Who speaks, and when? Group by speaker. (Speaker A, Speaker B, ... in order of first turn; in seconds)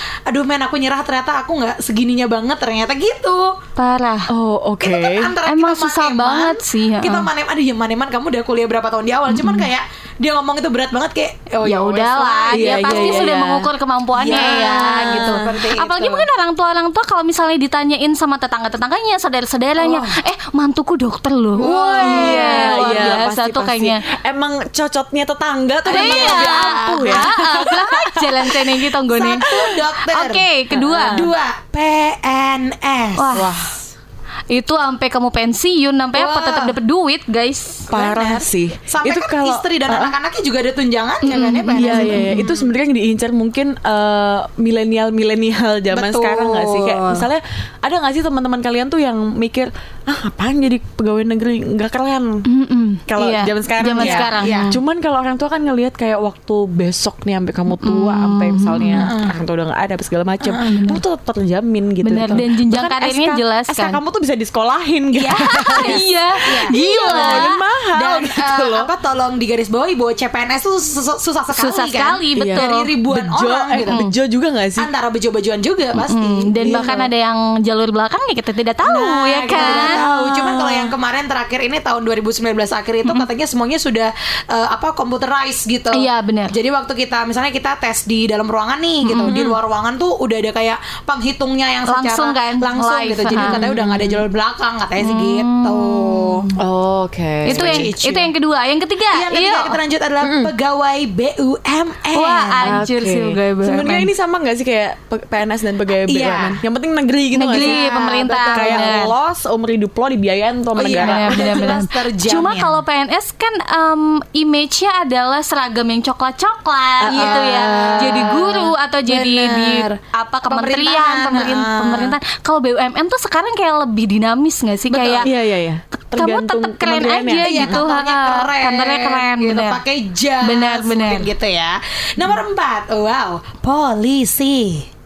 Speaker A: 0.3-3.6, 4.8-13.3, 14.2-16.3, 19.8-20.2, 21.6-23.2, 25.8-27.2, 29.1-30.4, 31.1-33.6, 36.1-36.8, 37.9-42.7, 45.9-47.2, 53.9-54.7, 59.0-59.3, 65.1-74.0, 74.8-77.0, 78.8-96.5, 97.5-98.3, 99.1-102.7, 106.1-106.6, 107.5-108.9, 110.8-112.8, 117.1-122.1, 124.9-125.2, 127.4-134.8
Speaker B: 3.8-4.3, 5.5-7.3, 9.3-9.7, 11.6-24.0, 25.9-29.5, 30.1-31.3, 33.2-33.6, 34.5-37.9, 41.2-42.6, 52.5-54.8, 57.8-59.1, 60.6-61.0, 62.0-64.0, 65.3-67.6, 71.5-72.9, 73.7-74.1, 76.0-80.0, 85.9-86.5, 89.0-89.4, 91.9-93.6, 95.0-96.5, 97.4-99.8, 102.1-104.1, 107.3-109.1, 110.9-125.3, 126.1-129.8, 130.4-131.3
Speaker C: 4.3-5.3, 12.5-13.7, 14.2-15.5, 21.6-28.9, 29.4-29.8, 30.7-31.3, 33.3-33.8, 37.9-40.1, 41.7-52.4, 53.1-68.9, 72.4-74.9, 76.6-77.0, 79.5-80.9, 89.2-89.6, 93.3-94.2, 96.6-97.9, 100.2-100.5, 102.6-111.8, 117.0-118.4, 125.2-127.8